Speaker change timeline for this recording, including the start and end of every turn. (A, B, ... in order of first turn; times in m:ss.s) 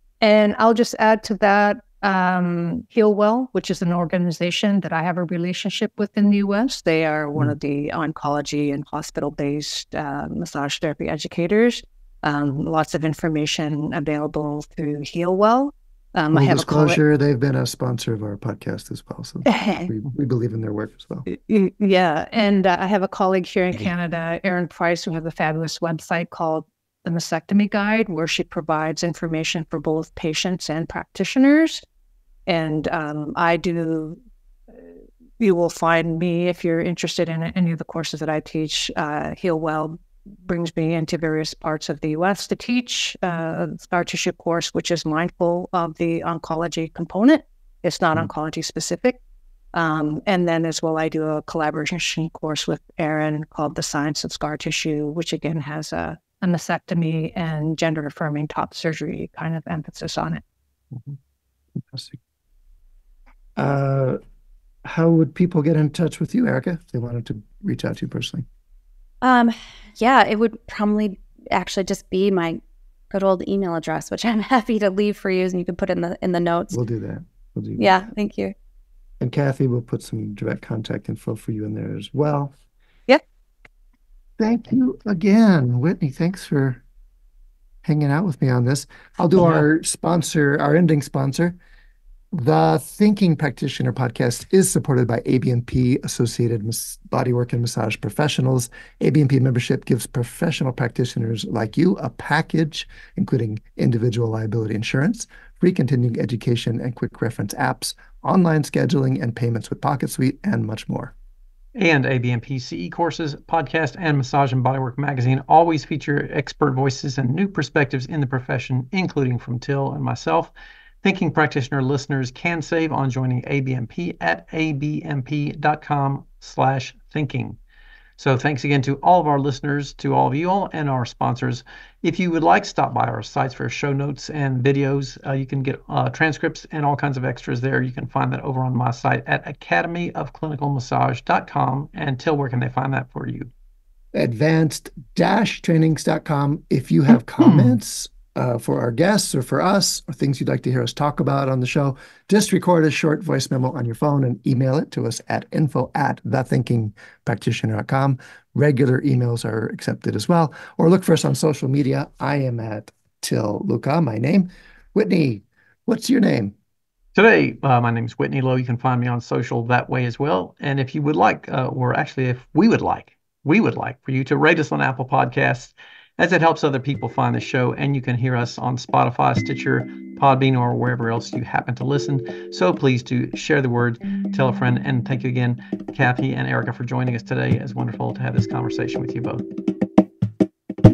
0:00.2-0:17.0 A
0:16.3-0:21.2 B
0:19.4-0:19.9 A
0:21.3-0:31.8 A
0:32.5-0:34.2 A
0:34.7-0:49.2 A
0:49.7-1:00.4 A
1:01.7-1:02.2 B
1:03.6-1:04.2 B
1:04.8-1:08.4 B
1:09.2-1:16.8 C
1:16.7-1:18.0 B
1:17.8-1:18.5 C
1:19.2-1:22.5 B
1:24.4-1:26.8 B
1:27.8-1:31.6 B
1:29.4-1:29.6 D
1:32.3-1:51.1 B
1:51.8-2:00.5 D
2:01.0-2:07.6 D
2:08.2-2:23.5 D
2:24.1-2:46.5 B
2:27.4-2:27.8 D
2:47.1-3:09.4 D